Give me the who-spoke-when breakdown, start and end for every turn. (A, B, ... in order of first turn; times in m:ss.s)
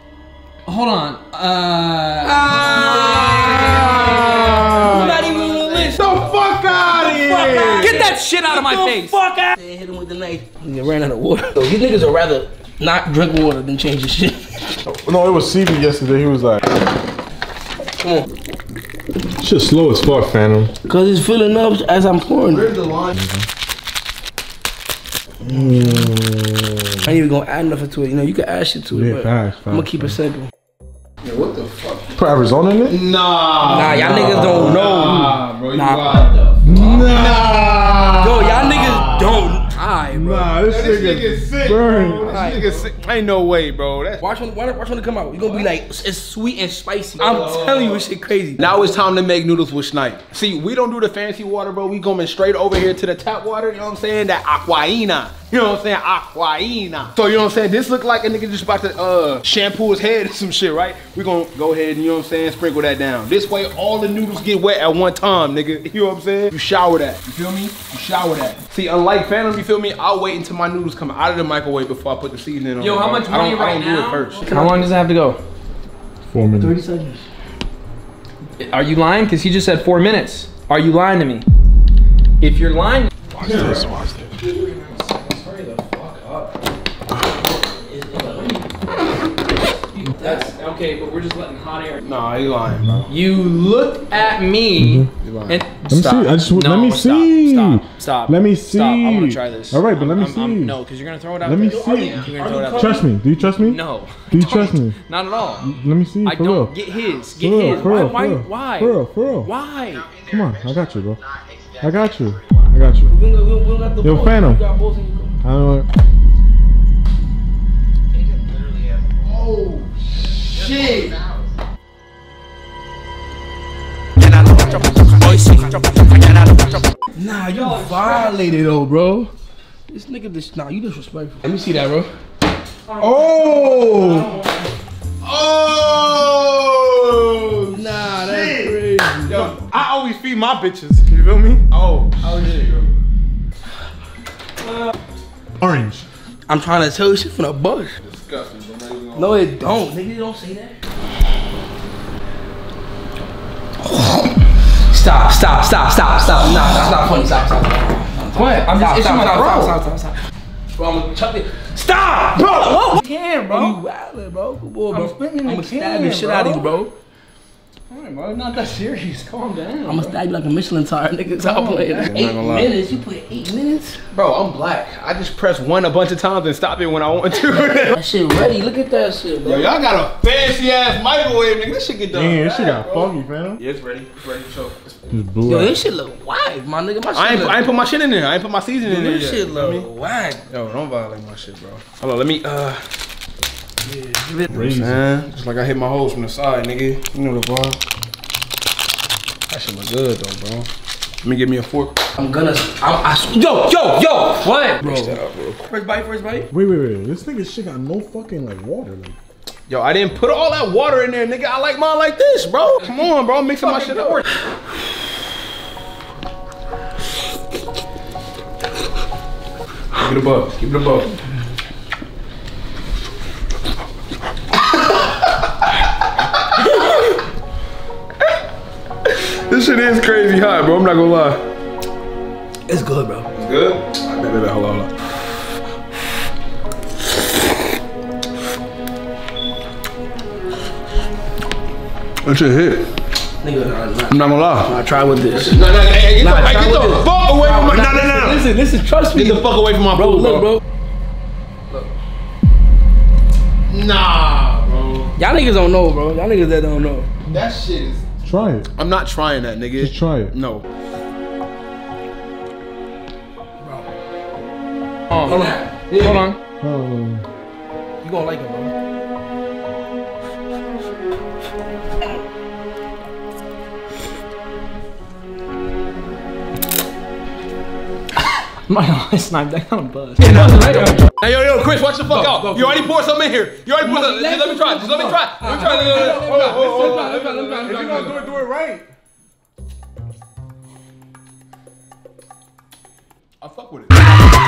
0:00.6-0:06.1 A
0:02.2-0:14.8 B
0:03.6-0:05.1 C
0:05.9-0:08.1 C
0:07.4-0:09.5 A
0:14.8-0:16.6 D
0:18.0-0:18.3 B
0:19.4-0:20.7 D
0:20.9-0:22.7 B
0:22.4-0:23.2 C
0:23.2-0:23.4 D
0:25.4-0:27.1 D
0:27.0-0:30.5 B
0:28.9-0:30.1 D
0:31.2-0:32.2 C
0:32.1-0:33.0 D
0:32.9-0:39.6 C
0:33.6-0:36.4 B
0:36.6-0:36.9 A
0:38.2-0:40.5 B
0:40.1-0:42.5 D
0:40.6-0:44.3 C
0:42.2-0:42.8 B
0:44.2-0:48.6 B
0:47.2-0:48.0 C
0:48.6-1:14.6 C
1:12.8-1:15.4 A
1:14.4-1:14.9 B
1:16.3-1:16.8 D
1:16.6-1:17.2 B
1:18.6-1:21.4 A
1:22.4-1:23.8 A
1:23.3-1:24.3 D
1:23.4-1:23.7 C
1:24.4-1:26.5 A
1:27.7-1:28.7 B
1:29.9-1:32.1 A
1:30.2-1:30.5 B
1:32.0-1:33.1 C
1:32.7-1:33.0 D
1:33.1-1:43.0 A
1:34.8-1:35.1 D
1:35.2-1:35.6 C
1:35.9-1:40.8 D
1:41.4-1:45.0 D
1:41.6-1:43.0 B
1:43.6-1:45.7 A
1:45.6-1:46.7 D
1:46.2-1:50.2 A
1:47.4-1:49.5 D
1:47.6-1:48.5 B
1:50.2-1:51.2 D
1:51.8-1:53.1 D
1:53.0-1:55.4 B
1:54.0-1:54.6 D
1:55.4-1:55.9 D
1:59.2-2:01.3 C
2:04.4-2:05.2 B
2:07.1-2:09.3 B
2:07.5-2:08.4 A
2:09.9-2:12.1 B
2:12.9-2:14.4 A
2:13.0-2:14.3 D
2:13.3-2:14.2 C
2:15.2-2:19.6 C
2:17.7-2:19.5 B
2:19.5-2:21.6 D
2:21.7-2:22.9 C
2:25.6-2:26.0 D
2:26.5-2:27.9 B
2:28.0-2:29.5 C
2:29.1-2:30.8 B
2:33.8-2:34.3 B
2:34.9-2:40.1 B
2:38.5-2:39.8 A
2:40.8-2:46.9 B
2:41.0-2:41.5 A
2:42.9-2:43.8 A
2:44.9-2:46.7 A
2:47.9-2:50.1 A
2:49.8-2:54.0 B
2:51.4-2:52.1 A
2:52.1-2:52.7 C
2:54.1-2:58.0 C
2:57.9-2:59.7 B
2:59.4-3:05.1 C
3:02.1-3:03.6 D
3:05.1-3:05.8 D
3:05.4-3:07.6 B
3:07.1-3:09.9 C
3:08.8-3:10.4 B
3:10.5-3:12.8 C
3:13.8-3:14.5 B
3:14.5-3:15.0 D
3:14.5-3:17.8 C
3:19.5-3:20.7 C
3:21.2-3:22.0 C
3:22.2-3:26.5 B
3:24.2-3:24.8 A
3:24.8-3:25.6 C
3:26.5-3:29.2 D
3:29.7-3:34.2 C
3:39.9-3:41.1 C
3:49.0-3:51.4 C
3:52.7-3:53.3 B
3:53.3-3:54.9 C
4:02.2-4:02.9 C
4:03.4-4:05.6 B
4:04.1-4:04.7 C
4:05.3-4:08.5 C
4:06.2-4:10.6 B
4:09.1-4:10.6 C
4:13.7-4:15.1 C
4:15.2-4:17.1 B
4:17.3-4:18.1 C
4:18.2-4:18.7 D
4:18.7-4:20.6 C
4:19.8-4:20.3 D
4:23.6-4:23.9 B
4:25.1-4:26.4 A
4:25.2-4:26.2 B
4:26.6-4:27.2 D
4:28.0-4:28.7 B
4:38.7-4:41.0 A
4:40.3-4:48.2 C
4:42.3-4:42.8 B
4:43.8-4:48.3 B
4:46.1-4:48.9 D
4:53.4-4:54.3 C